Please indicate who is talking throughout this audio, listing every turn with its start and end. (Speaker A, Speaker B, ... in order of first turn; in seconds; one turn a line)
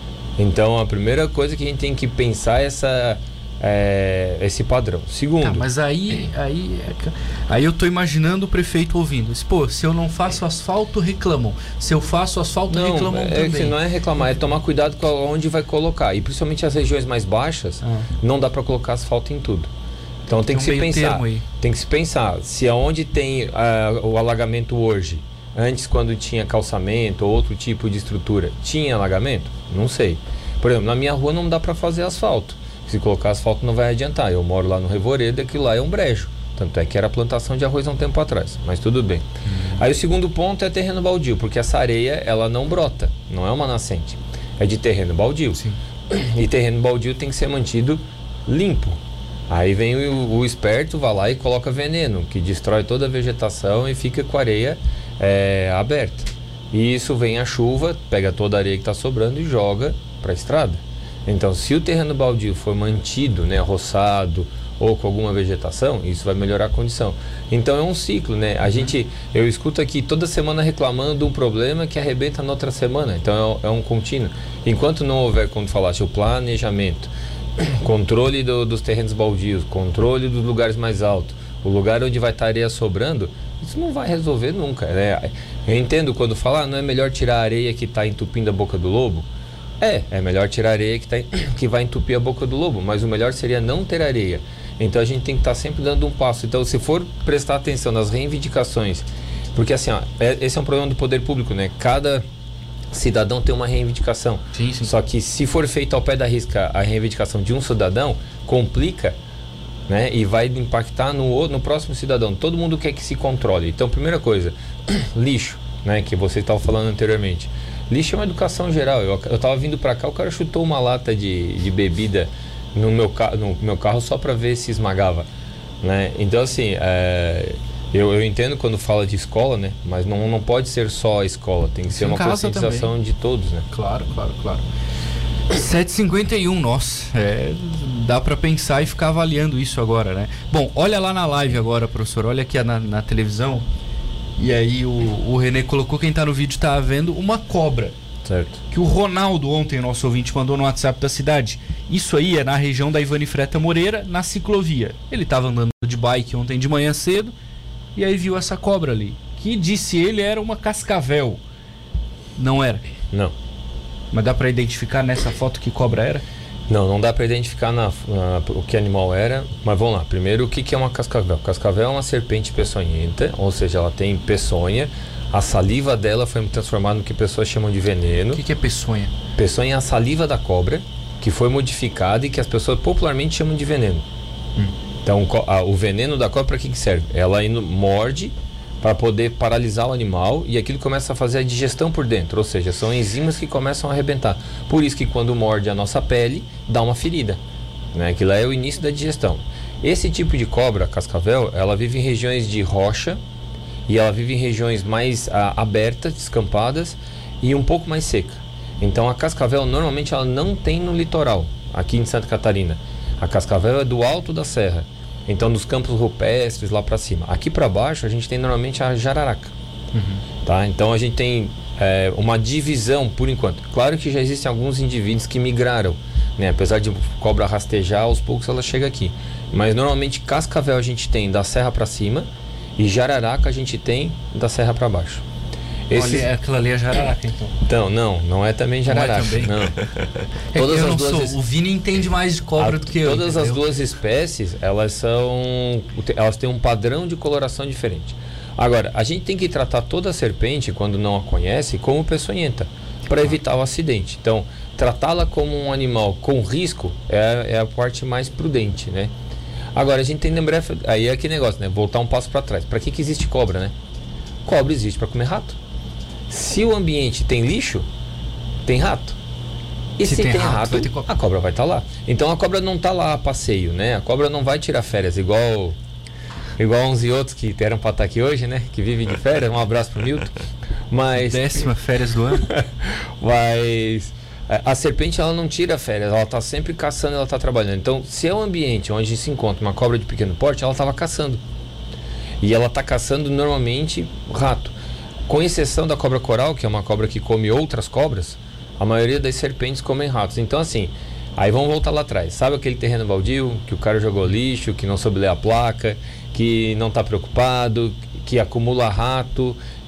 Speaker A: 0.4-5.7
Speaker B: 5.4-13.8
Speaker A: 12.7-19.7
Speaker B: 17.8-18.1
Speaker A: 20.3-39.2
Speaker B: 20.5-21.4
Speaker B: 39.5-39.9
Speaker A: 39.8-89.3
Speaker A: 89.8-102.2
Speaker A: 102.9-109.2
Speaker B: 104.5-104.9
Speaker A: 109.9-125.3
Speaker A: 125.8-133.7
Speaker B: 131.9-132.9
Speaker B: 133.7-134.6
Speaker B: 135.5-143.7
Speaker B: 144.4-147.9
Speaker A: 148.2-148.6
Speaker B: 148.7-157.3
Speaker B: 157.9-161.4
Speaker B: 162.3-162.8
Speaker B: 164.1-166.2
Speaker A: 166.7-178.4
Speaker B: 178.3-179.1
Speaker A: 179.3-184.0
Speaker A: 185.0-197.4
Speaker A: 197.9-203.2
Speaker A: 203.9-219.5
Speaker B: 219.9-220.2
Speaker A: 220.4-235.2
Speaker A: 235.9-236.3
Speaker B: 235.9-237.5
Speaker A: 237.7-239.8
Speaker B: 238.8-239.5
Speaker A: 240.5-241.4
Speaker B: 240.5-243.6
Speaker A: 242.6-259.1
Speaker A: 259.7-263.7
Speaker A: 264.4-265.6
Speaker A: 266.3-267.9
Speaker A: 268.6-269.1
Speaker A: 270.0-275.8
Speaker B: 270.0-271.1
Speaker A: 276.6-280.4
Speaker A: 280.9-281.7
Speaker B: 281.1-282.5
Speaker A: 282.3-291.4
Speaker A: 292.4-294.8
Speaker A: 295.3-309.6